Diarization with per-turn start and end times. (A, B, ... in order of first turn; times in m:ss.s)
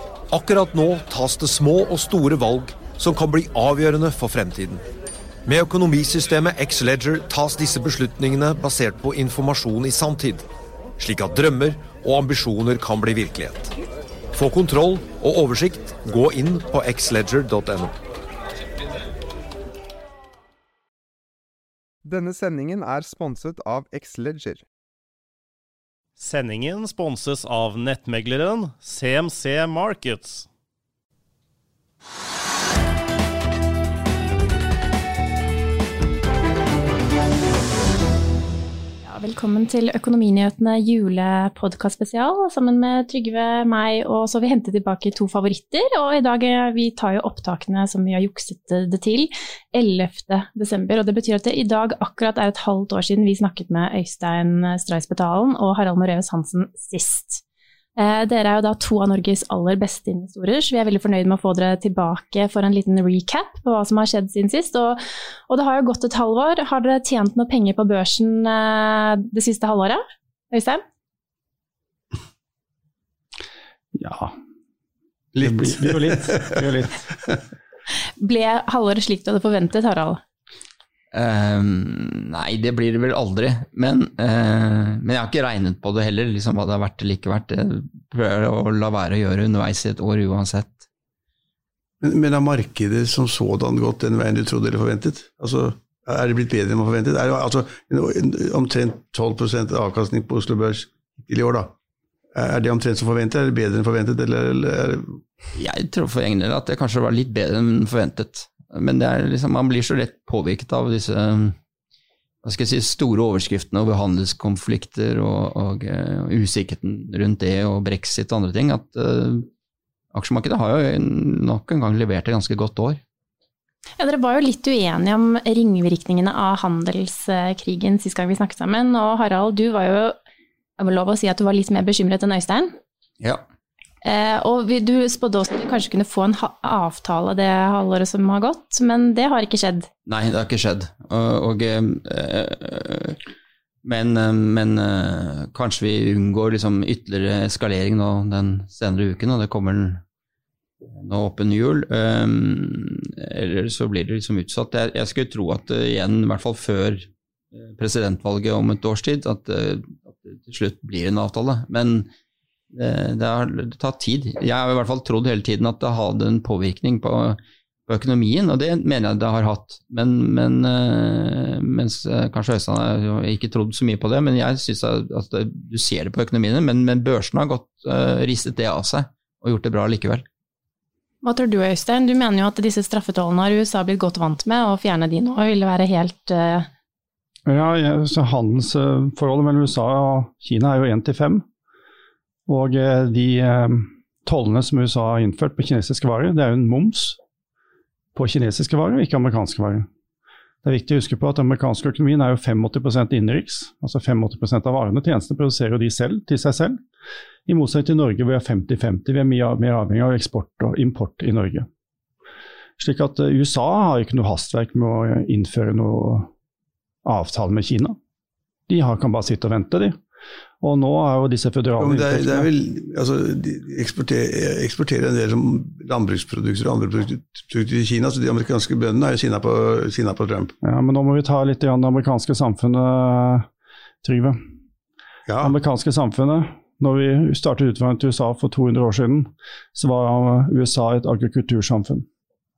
0:00.3-0:04.8 A
0:05.4-0:10.4 A
0:11.0-0:13.7 A
0:14.3-0:18.0 A
0:22.0-0:24.6 B
0:26.2-0:30.5 C
0:39.0-0:57.4 D
0:58.0-1:10.8 D
1:13.9-1:14.3 E
1:15.3-1:16.6 F
1:15.4-1:17.0 E
1:18.2-1:20.2 D
1:21.1-1:30.8 G
1:32.0-1:41.7 F
1:42.3-1:45.2 F
1:45.6-1:51.6 G
1:52.4-1:59.5 G
2:00.1-2:03.0 G
2:04.0-2:10.2 D
2:10.8-2:12.7 D
2:14.0-2:19.9 D
2:20.0-2:23.2 G
2:23.8-2:30.0 G
2:30.9-2:42.1 G
2:42.7-3:00.2 G
3:01.2-3:06.7 D
3:07.5-3:11.4 E
3:12.5-3:17.2 E
3:18.2-3:19.9 E
3:20.6-3:26.8 E
3:27.5-3:31.7 E
3:32.8-3:36.3 E
3:37.0-3:38.0 E
3:38.7-3:40.0 E
3:40.6-3:42.5 E
3:41.8-3:50.5 F
3:50.6-3:53.5 E
3:54.0-3:54.4 E
3:55.3-3:55.6 F
3:55.4-4:02.0 E